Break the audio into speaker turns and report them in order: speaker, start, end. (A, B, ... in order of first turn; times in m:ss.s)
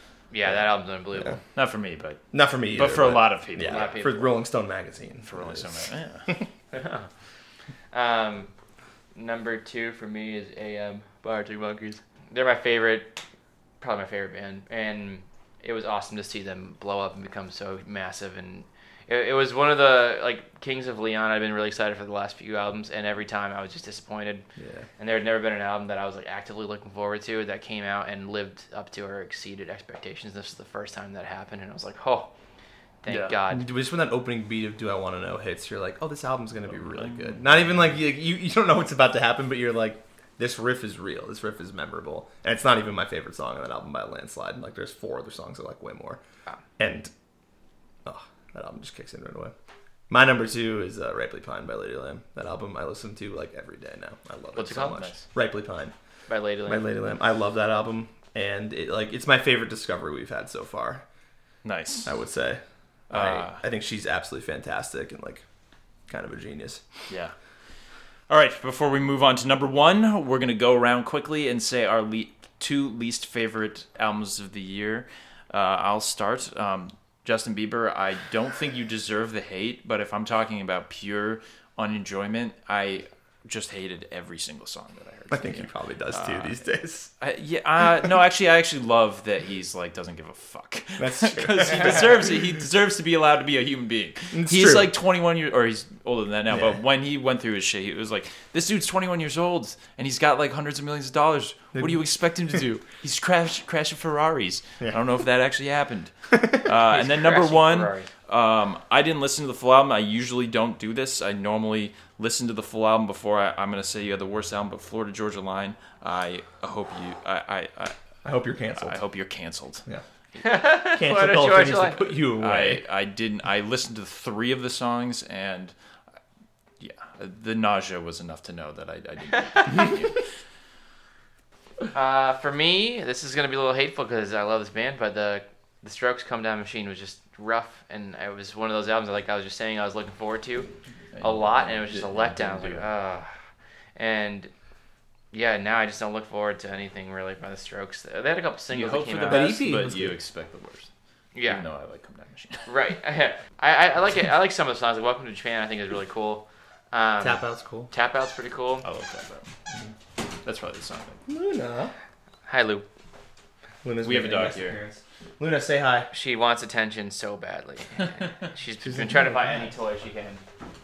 0:00.3-0:01.4 A
0:01.6-0:02.2 B
0:02.3-0:06.5 C
0:02.8-0:04.0 B
0:03.7-0:04.3 A
0:05.2-0:06.3 B
0:06.7-0:07.1 A
0:07.9-0:08.5 A
0:09.1-0:13.2 A
0:13.8-0:24.4 A
0:24.6-0:24.9 C
0:25.0-0:32.3 A
0:33.0-0:33.6 A
0:33.1-0:33.4 B
0:33.5-0:46.2 C
0:36.7-0:37.8 B
0:46.8-0:47.1 C
0:48.0-0:49.5 C
0:50.1-0:55.9 C
0:54.6-0:55.2 A
0:54.8-0:55.2 B
0:56.3-0:56.9 A
0:56.6-1:01.0 C
1:01.6-1:02.1 B
1:02.0-1:05.4 C
1:03.1-1:03.6 B
1:06.1-1:06.8 C
1:07.1-1:07.3 B
1:08.3-1:26.7 B
1:25.3-1:27.1 C
1:27.2-1:58.0 B
1:31.0-1:32.3 C
1:34.3-1:34.9 C
1:36.5-1:36.8 C
1:46.3-1:46.6 C
1:46.8-1:48.1 A
1:58.2-1:59.0 C
1:58.8-1:59.8 B
2:00.4-2:02.2 A
2:00.8-2:02.8 C
2:02.4-2:05.8 B
2:06.8-2:10.2 B
2:09.6-2:09.9 A
2:11.9-2:20.7 A
2:21.1-2:22.9 B
2:21.2-2:23.3 A
2:24.0-2:24.5 A
2:25.3-2:29.7 A
2:28.7-2:30.9 B
2:29.2-2:30.2 C
2:31.3-2:31.6 A
2:31.4-2:32.9 B
2:32.7-2:38.8 A
2:37.2-2:37.9 C
2:38.8-2:39.5 B
2:40.4-2:41.2 B
2:41.3-2:41.9 C
2:42.5-2:42.8 A
2:43.8-2:46.1 C
2:44.0-2:44.8 B
2:46.1-2:50.4 A
2:48.8-2:49.8 C